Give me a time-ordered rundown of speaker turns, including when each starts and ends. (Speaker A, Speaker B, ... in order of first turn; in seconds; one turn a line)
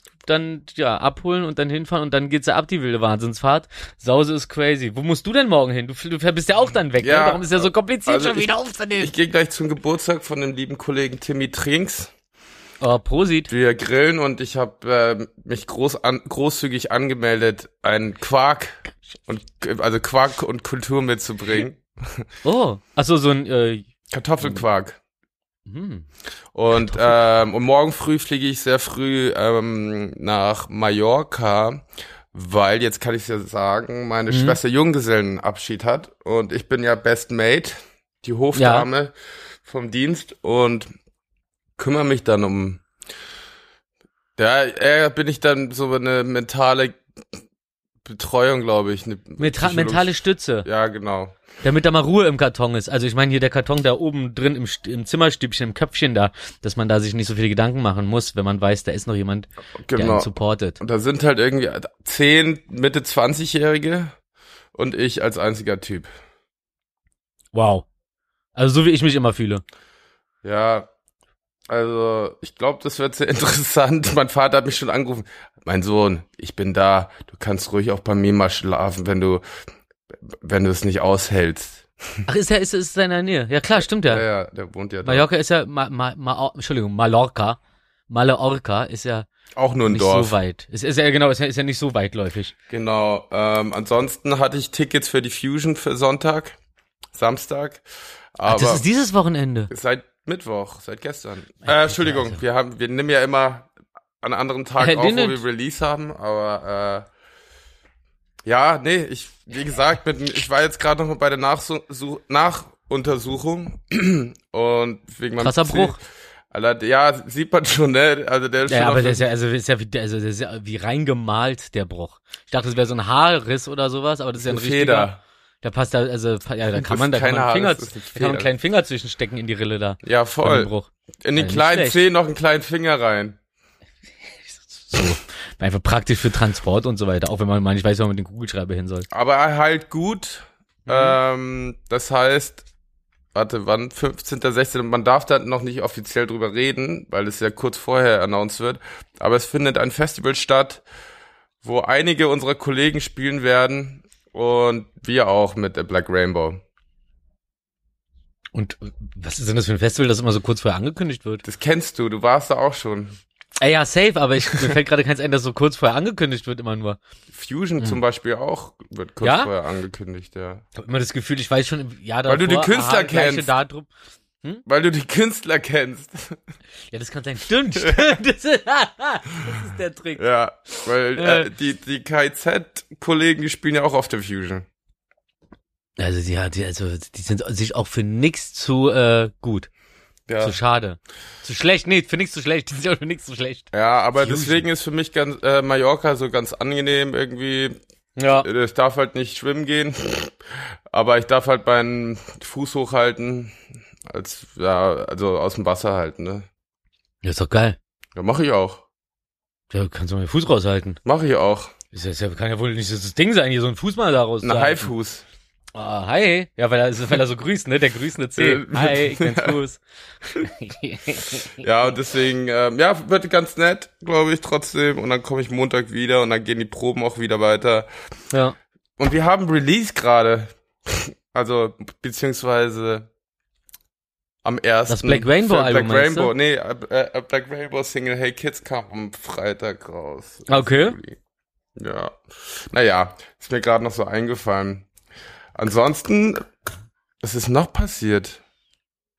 Speaker A: 0.2-9.1
Speaker B: 7.0-12.1
Speaker A: 12.8-13.5
Speaker B: 13.5-22.3
Speaker A: 22.4-23.9
Speaker B: 24.1-25.0
Speaker A: 25.7-26.1
Speaker B: 26.5-40.9
Speaker A: 34.3-34.6
Speaker A: 38.5-38.9
Speaker B: 41.8-42.8
Speaker B: 44.4-47.0
Speaker B: 48.0-51.4
Speaker A: 49.4-50.7
Speaker A: 51.6-60.8
Speaker B: 59.8-64.2
Speaker B: 64.7-66.1
Speaker A: 67.5-67.9
Speaker A: 68.5-69.6
Speaker B: 70.4-70.9
Speaker B: 71.7-79.4
Speaker B: 80.1-82.2
Speaker A: 82.3-84.3
Speaker B: 84.0-85.3
Speaker A: 85.0-87.6
Speaker A: 88.1-89.3
Speaker B: 89.5-90.4
Speaker A: 89.9-92.5
Speaker B: 92.7-96.6
Speaker B: 97.1-98.8
Speaker A: 98.5-99.7
Speaker B: 99.7-103.7
Speaker B: 104.2-107.1
Speaker A: 104.8-105.4
Speaker B: 108.4-116.0
Speaker A: 115.4-116.0
Speaker B: 116.5-119.2
Speaker A: 118.7-132.0
Speaker B: 124.4-125.2
Speaker B: 126.7-128.5
Speaker B: 130.0-130.7
Speaker B: 131.2-133.4
Speaker A: 134.5-139.1
Speaker B: 139.1-142.6
Speaker A: 140.9-141.2
Speaker B: 143.3-150.8
Speaker B: 151.6-156.6
Speaker A: 158.5-161.4
Speaker B: 161.4-163.2
Speaker A: 163.6-167.0
Speaker B: 167.3-170.6
Speaker A: 169.2-169.5
Speaker A: 170.8-173.9
Speaker B: 172.3-173.5
Speaker B: 174.7-176.4
Speaker A: 176.9-180.2
Speaker B: 177.8-178.1
Speaker B: 180.2-184.7
Speaker A: 181.2-181.5
Speaker A: 186.0-189.7
Speaker B: 190.3-190.6
Speaker A: 190.4-194.7
Speaker B: 193.7-197.8
Speaker A: 198.2-198.5
Speaker B: 198.4-206.5
Speaker A: 207.2-207.8
Speaker B: 208.2-208.8
Speaker A: 209.7-211.0
Speaker B: 211.1-211.7
Speaker A: 211.9-214.9
Speaker B: 214.4-215.2
Speaker A: 215.8-219.8
Speaker B: 218.4-219.6
Speaker A: 220.4-221.5
Speaker B: 221.6-227.9
Speaker A: 228.3-228.6
Speaker B: 229.0-233.1
Speaker B: 234.4-241.2
Speaker A: 234.9-236.3
Speaker A: 240.5-241.0
Speaker B: 241.8-244.9
Speaker B: 245.6-246.5
Speaker B: 247.2-248.4